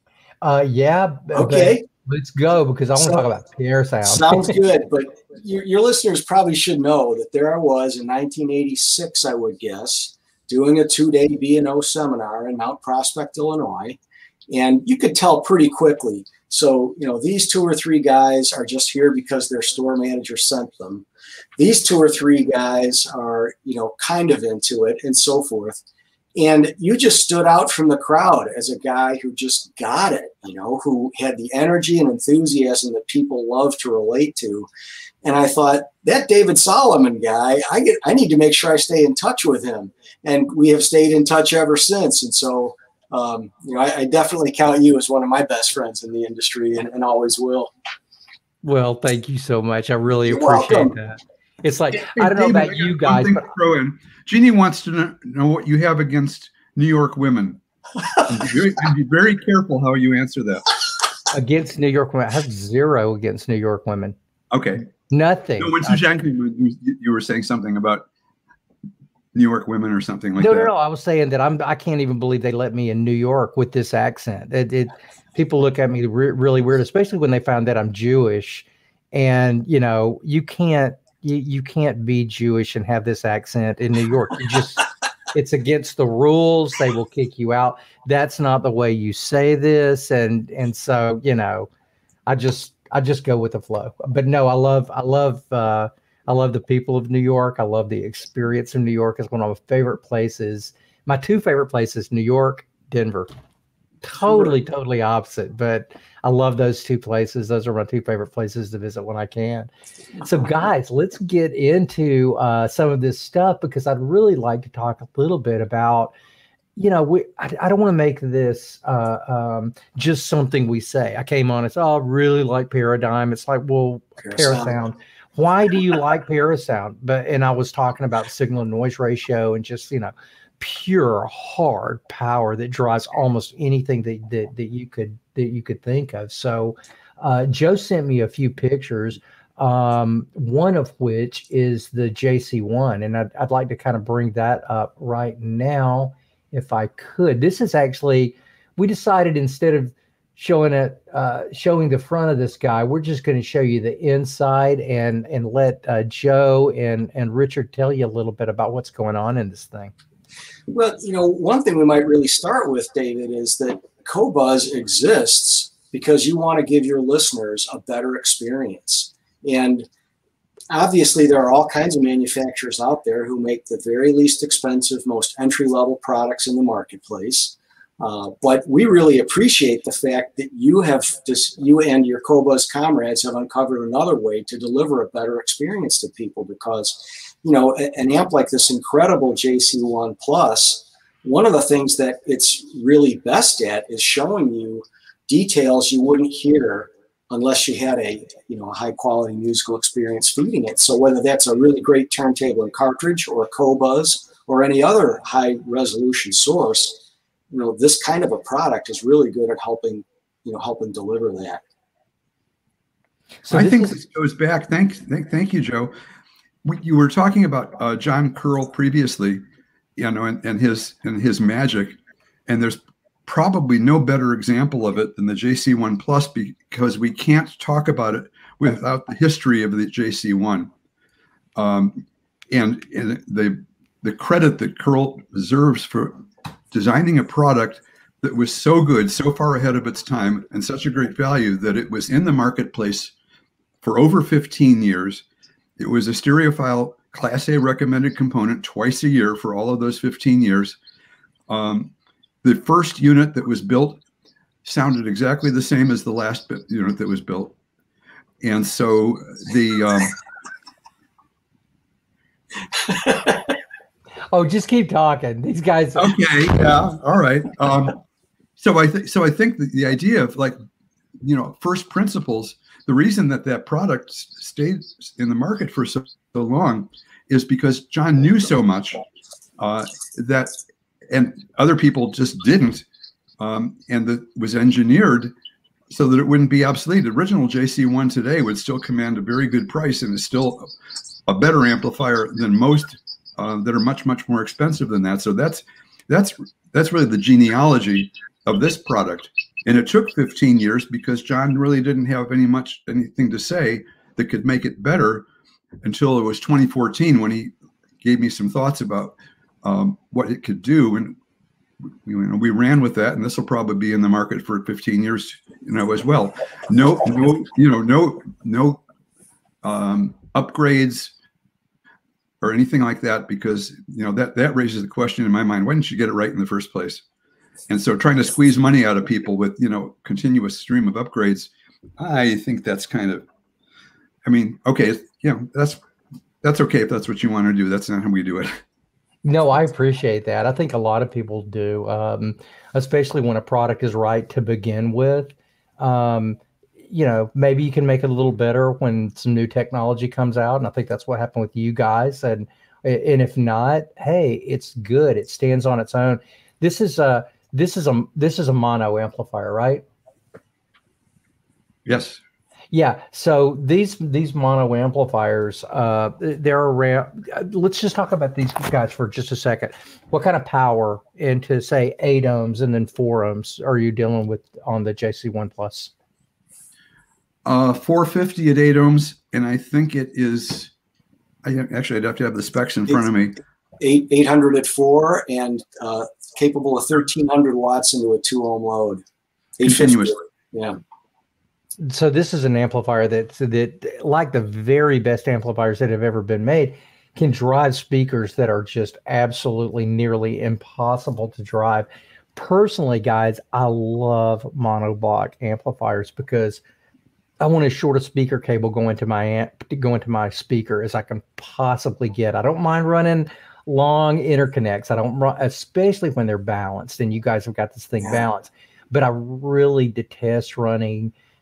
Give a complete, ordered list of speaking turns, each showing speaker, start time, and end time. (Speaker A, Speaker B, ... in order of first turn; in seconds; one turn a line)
Speaker A: 0.4-4.5
Speaker B: 1.3-1.9
Speaker B: 3.0-3.2
Speaker B: 4.0-14.0
Speaker B: 14.5-21.0
Speaker B: 21.6-25.8
Speaker B: 26.4-34.7
Speaker B: 35.2-47.7
Speaker A: 48.6-53.5
Speaker B: 50.2-50.9
Speaker C: 52.0-57.6
Speaker C: 58.2-60.7
Speaker A: 61.3-64.2
Speaker C: 64.5-64.8
Speaker A: 65.1-66.0
Speaker C: 65.6-68.0
Speaker C: 69.3-70.7
Speaker A: 70.4-91.7
Speaker A: 92.3-103.3
Speaker A: 104.0-109.7
Speaker A: 110.2-116.1
Speaker A: 116.8-159.9
Speaker B: 124.2-124.8
Speaker B: 160.7-169.8
Speaker B: 170.7-207.0
Speaker B: 207.5-211.6
Speaker A: 213.4-214.0
Speaker C: 213.5-215.9
Speaker C: 216.6-219.4
Speaker C: 220.0-230.7
Speaker C: 231.6-243.1
Speaker C: 243.8-245.2
Speaker C: 245.8-250.8
Speaker C: 251.5-251.9
Speaker C: 252.4-254.0
Speaker C: 254.6-257.5
Speaker C: 258.4-260.1
Speaker A: 264.3-266.4
Speaker C: 265.9-268.0
Speaker C: 268.6-270.6
Speaker C: 271.2-279.0
Speaker C: 279.6-280.6
Speaker C: 281.1-282.8
Speaker C: 283.4-285.3
Speaker C: 285.9-290.7
Speaker C: 291.2-305.2
Speaker C: 305.8-311.2
Speaker C: 312.0-318.8
Speaker C: 319.6-321.1
Speaker C: 322.4-327.0
Speaker C: 327.7-333.2
Speaker C: 334.2-335.8
Speaker C: 336.4-338.6
Speaker A: 339.2-359.8
Speaker C: 361.9-362.2
Speaker A: 362.7-375.9
Speaker C: 377.4-380.7
Speaker C: 381.4-383.4
Speaker B: 383.8-389.0
Speaker B: 389.6-390.8
Speaker C: 389.6-390.1
Speaker A: 391.8-406.6
Speaker A: 407.4-421.1